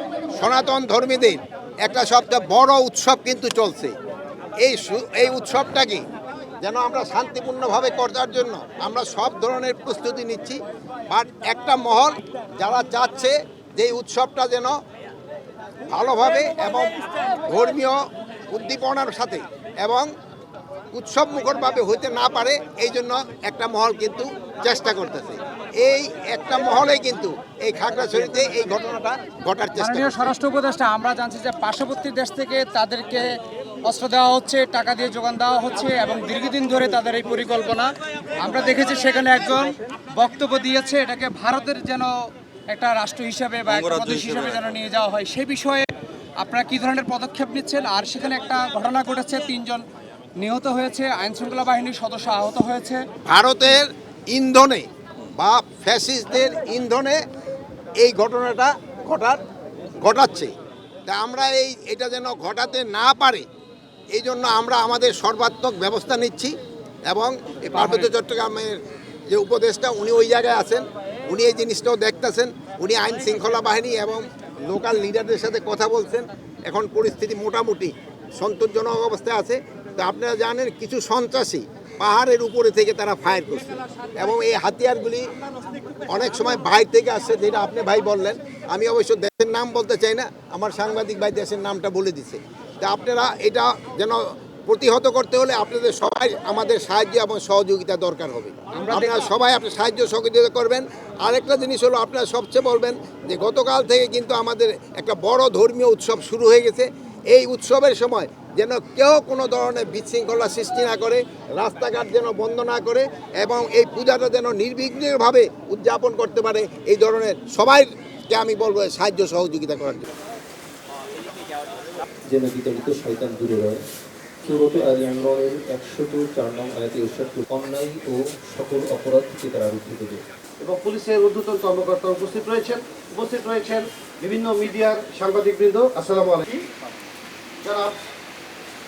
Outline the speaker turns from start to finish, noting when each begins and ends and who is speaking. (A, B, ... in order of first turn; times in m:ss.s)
0:00.4-0:03.9 A
0:04.6-0:06.0 A
0:06.6-0:10.6 A
0:11.1-0:14.8 A
0:15.9-0:18.0 A
0:18.5-0:20.1 A
0:20.9-0:30.3 A
0:29.8-0:33.3 B
0:33.9-0:45.9 B
0:46.4-0:49.9 B
0:50.4-0:53.0 B
0:53.2-0:57.2 A
0:58.0-0:59.4 A
1:00.0-1:00.5 A
1:01.1-1:03.4 A
1:04.1-1:06.5 A
1:07.1-1:25.3 A
1:26.1-2:00.1 A
1:38.7-1:39.2 B
2:02.3-2:03.8 C
2:04.4-2:10.2 C
2:10.6-2:16.6 D
2:17.6-2:18.0 D